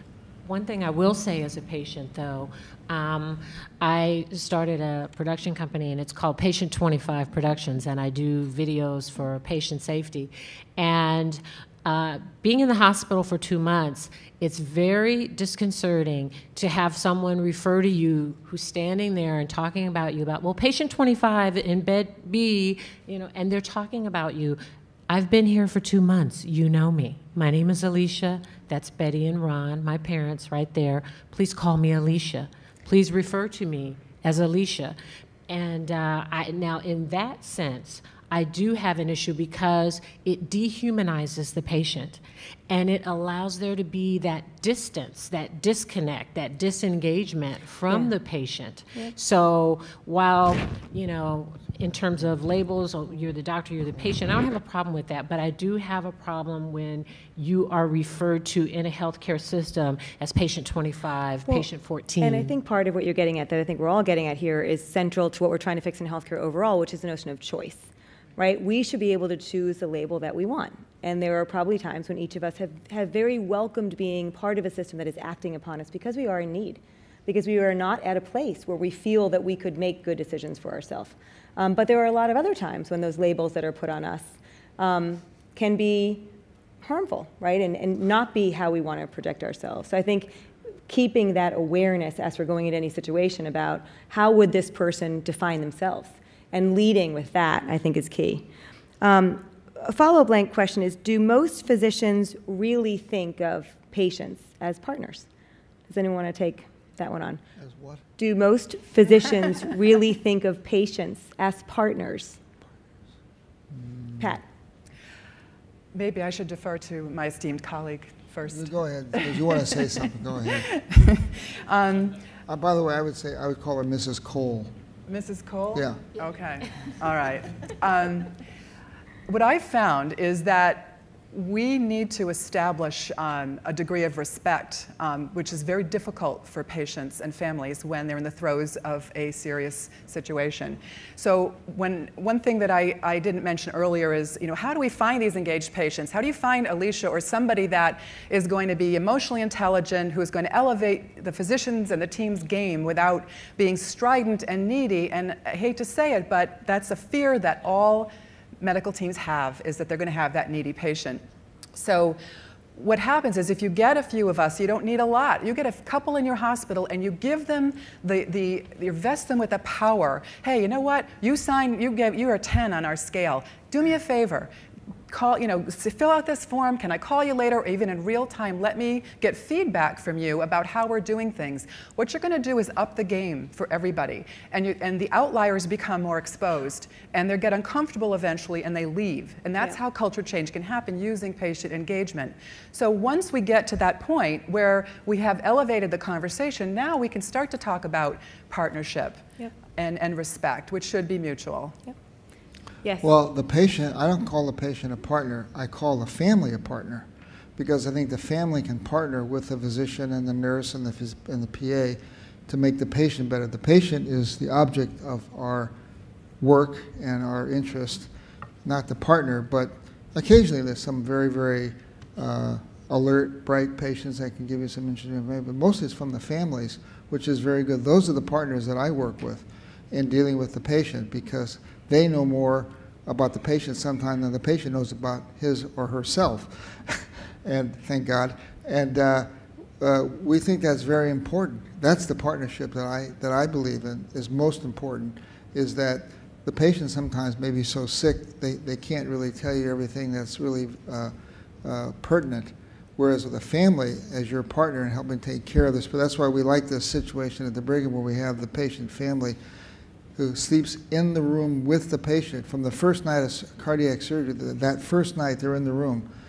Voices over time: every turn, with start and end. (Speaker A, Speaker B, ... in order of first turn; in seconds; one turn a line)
Speaker A: 0.5-35.0
Speaker A: 35.5-62.6
Speaker B: 62.2-86.3
Speaker B: 86.8-90.3
Speaker B: 90.9-98.5
Speaker B: 99.0-105.3
Speaker B: 105.9-107.4
Speaker C: 107.6-108.0
Speaker B: 108.2-112.4
Speaker C: 113.7-114.4
Speaker D: 115.9-119.9
Speaker C: 118.5-120.7
Speaker D: 120.6-122.2
Speaker C: 122.5-124.7
Speaker D: 125.1-128.4
Speaker C: 125.7-126.0
Speaker D: 129.3-161.2
Speaker D: 161.7-162.2
Speaker D: 162.8-174.5
Speaker D: 175.1-201.8
Speaker B: 202.8-203.1
Speaker C: 203.0-207.1
Speaker C: 207.6-215.7
Speaker C: 216.4-218.1
Speaker C: 218.6-251.1
Speaker C: 251.6-259.4
Speaker C: 260.2-266.1